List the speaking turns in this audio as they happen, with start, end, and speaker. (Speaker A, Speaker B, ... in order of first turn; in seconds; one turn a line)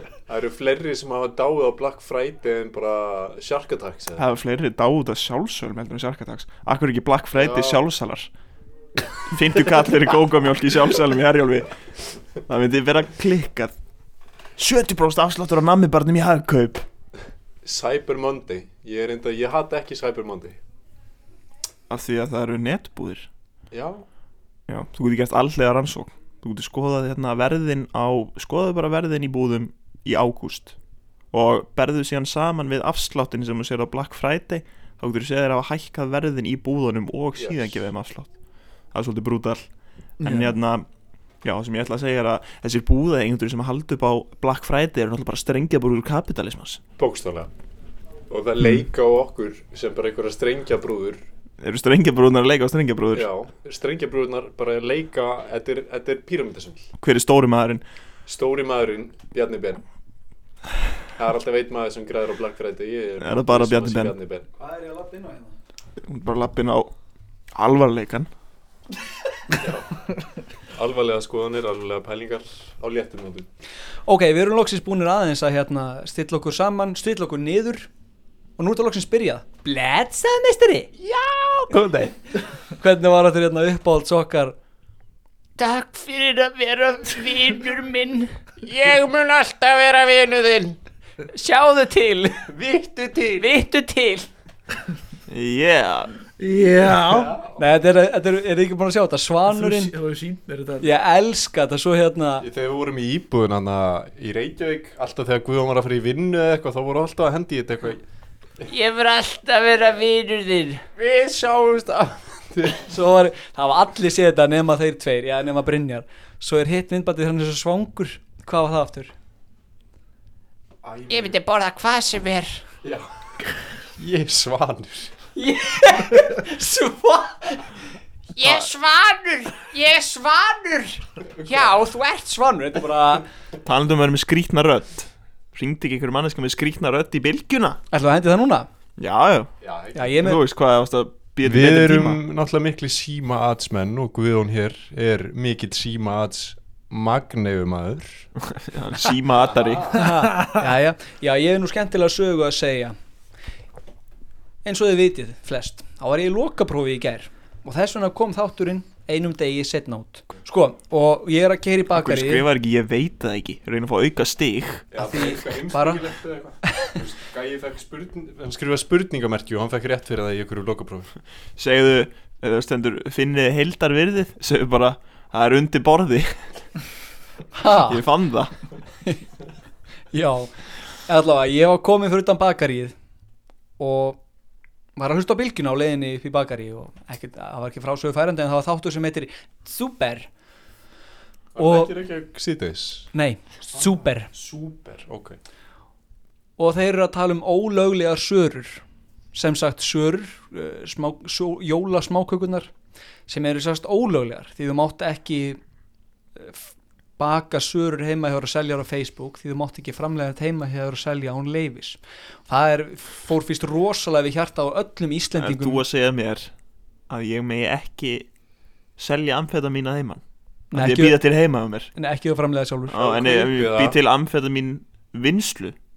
Speaker A: 0.3-4.2
Speaker B: 4.2-8.3
Speaker A: 7.3-7.8
Speaker B: 9.3-11.7
Speaker B: 12.5-13.7
Speaker B: 14.6-16.9
Speaker A: 17.6-20.6
Speaker B: 21.9-23.3
Speaker A: 23.7-24.0
Speaker B: 24.7-30.8
Speaker B: 31.3-38.3
Speaker A: 37.4-37.6
Speaker B: 38.9-39.6
Speaker B: 40.2-40.9
Speaker C: 40.2-40.5
Speaker B: 41.4-46.8
Speaker A: 47.0-47.5
Speaker A: 48.3-51.2
Speaker B: 51.6-53.3
Speaker A: 53.1-56.9
Speaker B: 57.0-57.8
Speaker A: 58.3-59.8
Speaker A: 61.2-64.5
Speaker B: 63.2-64.1
Speaker D: 64.6-65.6
Speaker B: 66.0-66.9
Speaker B: 67.5-68.3
Speaker A: 69.6-69.9
Speaker A: 70.7-73.5
Speaker D: 74.1-77.9
Speaker D: 78.6-80.9
Speaker E: 81.0-81.8
Speaker A: 81.7-82.1
Speaker D: 82.8-84.5
Speaker E: 85.6-90.8
Speaker E: 91.3-94.3
Speaker B: 95.3-96.1
Speaker C: 96.4-97.3
Speaker A: 97.0-97.6
Speaker D: 97.6-99.9
Speaker C: 99.5-100.9
Speaker D: 100.8-102.5
Speaker A: 102.4-108.0
Speaker E: 108.6-111.2
Speaker A: 111.1-112.8
Speaker D: 112.9-119.1
Speaker A: 120.8-121.4
Speaker E: 121.1-122.6
Speaker A: 124.0-125.1
Speaker D: 125.4-127.6
Speaker E: 128.3-132.4
Speaker A: 131.4-131.7
Speaker D: 132.3-133.2
Speaker B: 133.6-137.8
Speaker D: 137.9-138.7
Speaker B: 139.0-139.5
Speaker A: 139.6-140.1
Speaker D: 139.9-140.4
Speaker B: 140.2-142.2
Speaker A: 141.4-148.3
Speaker B: 148.5-150.0
Speaker A: 149.4-149.9
Speaker D: 149.9-153.0
Speaker D: 154.6-162.4
Speaker B: 161.9-164.8
Speaker A: 164.9-171.1
Speaker D: 165.0-166.1
Speaker B: 171.6-176.4
Speaker D: 177.6-178.0
Speaker B: 177.9-178.5
Speaker D: 180.1-180.5
Speaker D: 181.1-182.9
Speaker D: 183.8-184.2
Speaker D: 185.0-190.3
Speaker A: 191.6-193.1
Speaker D: 191.6-191.9
Speaker D: 193.1-194.3
Speaker A: 193.7-195.4
Speaker D: 196.6-198.8
Speaker D: 199.3-202.7
Speaker D: 203.3-205.6
Speaker D: 206.4-215.8
Speaker B: 215.4-216.5
Speaker B: 217.1-218.3
Speaker B: 219.0-220.2
Speaker D: 220.7-221.2
Speaker B: 220.7-221.9
Speaker D: 221.9-223.3
Speaker B: 222.9-225.8
Speaker A: 223.2-224.0